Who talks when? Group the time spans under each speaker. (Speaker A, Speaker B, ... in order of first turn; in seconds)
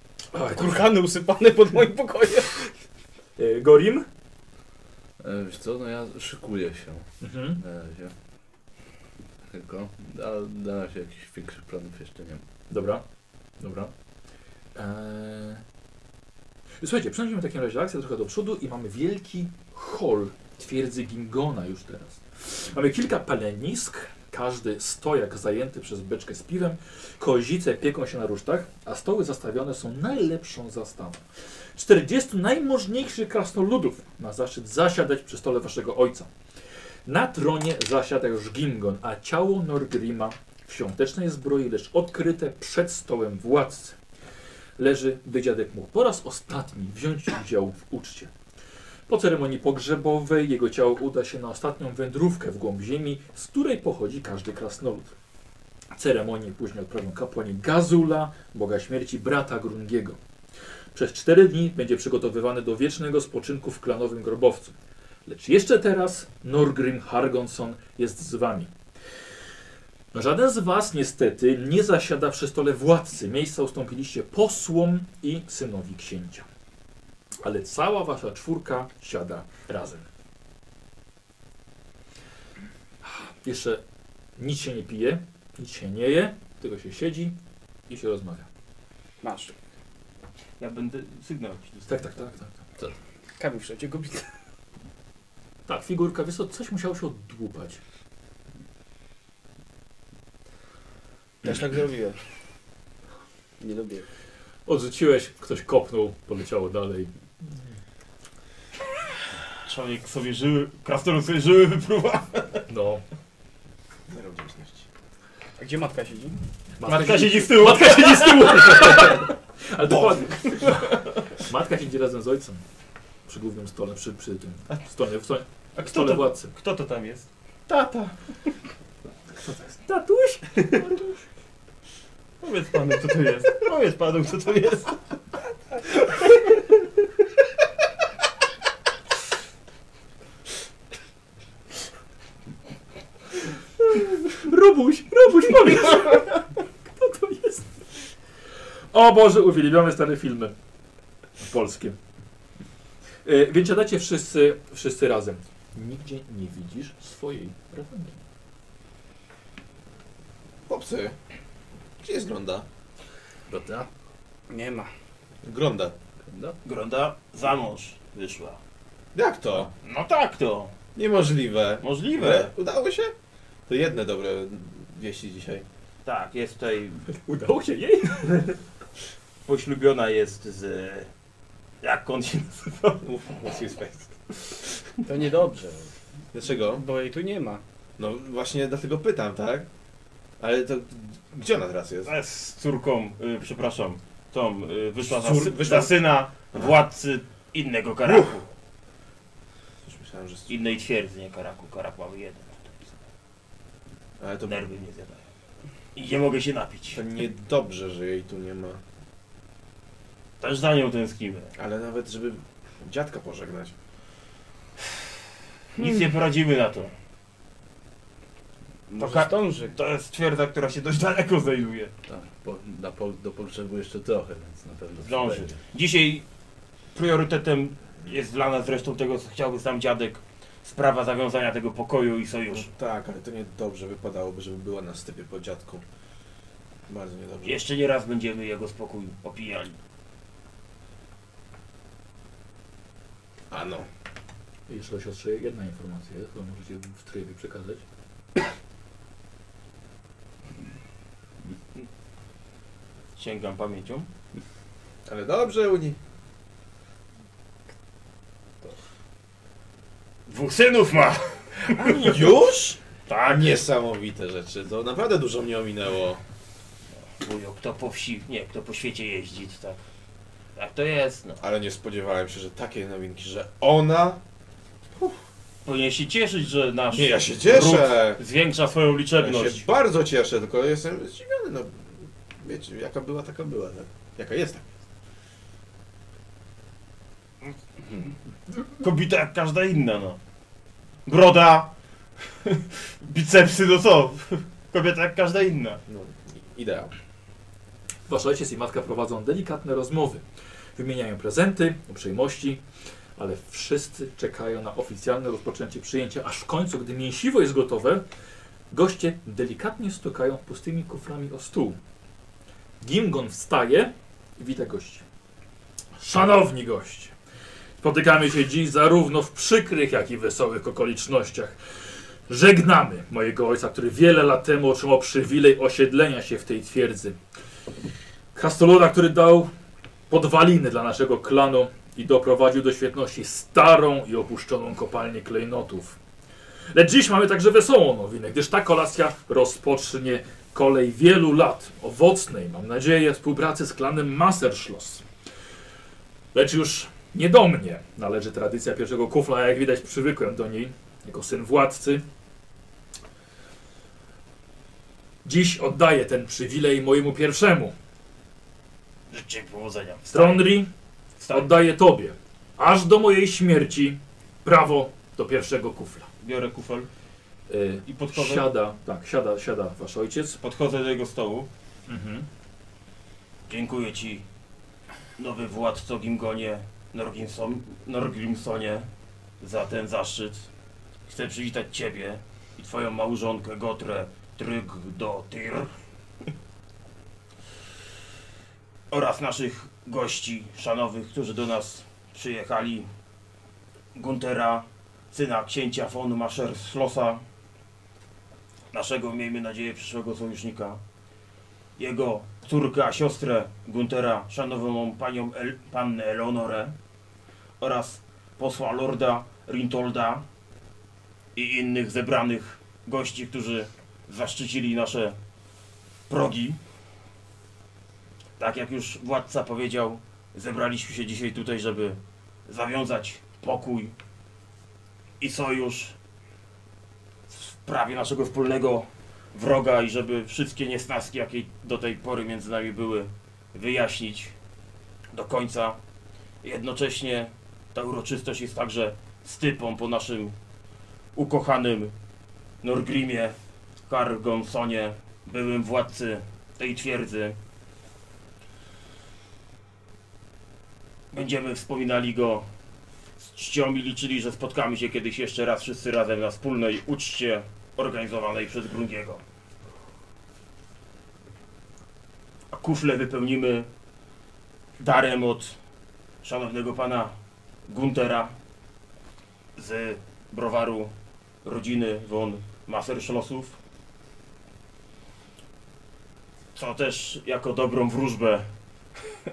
Speaker A: 0.3-0.9, 3.4-4.1, 7.2-7.6, 12.7-13.0, 13.6-13.9, 14.8-15.6, 16.8-31.2, 31.8-36.3, 37.1-44.0, 44.8-48.3, 49.1-55.1, 55.9-60.2, 60.9-64.7, 65.3-68.7, 70.1-76.5, 77.4-80.0, 83.0-83.8, 84.4-87.3, 87.9-88.5, 91.9-92.6, 95.7-97.8, 104.7-107.7, 112.7-113.0, 116.8-122.6, 123.3-126.5, 129.4-131.2, 143.9-148.1, 148.9-150.5, 151.4-152.0, 153.2-158.2, 177.1-178.6, 244.7-247.8, 298.1-300.2, 300.8-302.6, 303.2-308.0, 308.7-311.8, 312.8-315.0, 316.0-317.1, 317.8-321.6, 322.3-327.2, 328.3-329.5, 330.1-336.0, 336.7-345.0, 346.3-352.1, 355.2-357.7, 360.1-360.7, 361.3-366.1, 367.5-370.4, 371.9-372.3
Speaker B: 0.5-2.7, 89.2-89.5, 93.4-94.3, 101.4-102.2, 103.6-104.1, 115.6-116.4, 164.5-164.9, 185.1-185.9, 186.6-187.6, 219.0-219.7
Speaker C: 5.2-8.1, 9.5-12.4, 163.5-163.9, 166.2-166.6, 222.1-225.6
Speaker D: 90.6-91.9, 109.6-112.6, 116.8-119.0, 125.8-127.3, 132.4-135.0, 166.6-168.6, 169.8-170.7, 171.8-172.5, 176.1-177.1, 179.5-181.1, 181.8-183.0, 192.1-198.4, 200.5-202.9, 204.5-205.2, 205.9-207.0, 210.4-211.5, 215.8-216.9, 218.9-221.9, 225.0-226.2, 226.9-232.7, 237.4-239.8, 253.2-254.1, 260.3-262.1, 263.1-263.6, 267.2-269.8, 270.6-271.4, 275.6-279.6, 288.8-290.2, 291.1-291.7, 292.4-295.8, 359.1-360.5, 361.2-361.5, 366.2-366.9, 367.9-368.5, 370.4-371.5, 373.5-374.2, 375.2-378.9, 379.4-380.5, 381.1-385.7, 388.9-392.9, 393.9-397.2, 398.7-400.8, 401.8-406.8, 407.6-410.2, 411.4-415.2, 416.1-416.6, 418.4-423.9, 425.2-425.9, 427.3-434.3, 435.1-435.8, 436.4-440.4, 441.1-441.9, 442.6-443.4, 443.9-447.4, 451.1-452.5, 453.2-459.2, 462.5-463.7, 464.8-465.6, 466.2-467.1, 467.7-468.3, 469.6-470.9, 471.4-473.6, 476.6-478.5
Speaker E: 114.1-114.9, 119.9-120.3, 127.7-128.1, 160.7-161.2, 162.0-162.7, 165.4-165.9, 169.2-169.7, 170.9-173.1, 173.7-175.7, 183.0-184.3, 186.3-186.8, 188.0-189.7, 190.4-192.1, 195.0-196.8, 198.0-198.4, 199.8-200.5, 204.2-204.6, 206.9-208.8, 211.6-213.7, 232.5-235.8, 236.9-237.6, 243.5-243.9, 255.1-256.0, 261.9-266.2, 271.4-274.2, 274.9-275.2, 276.9-278.2, 279.2-284.7, 295.9-296.9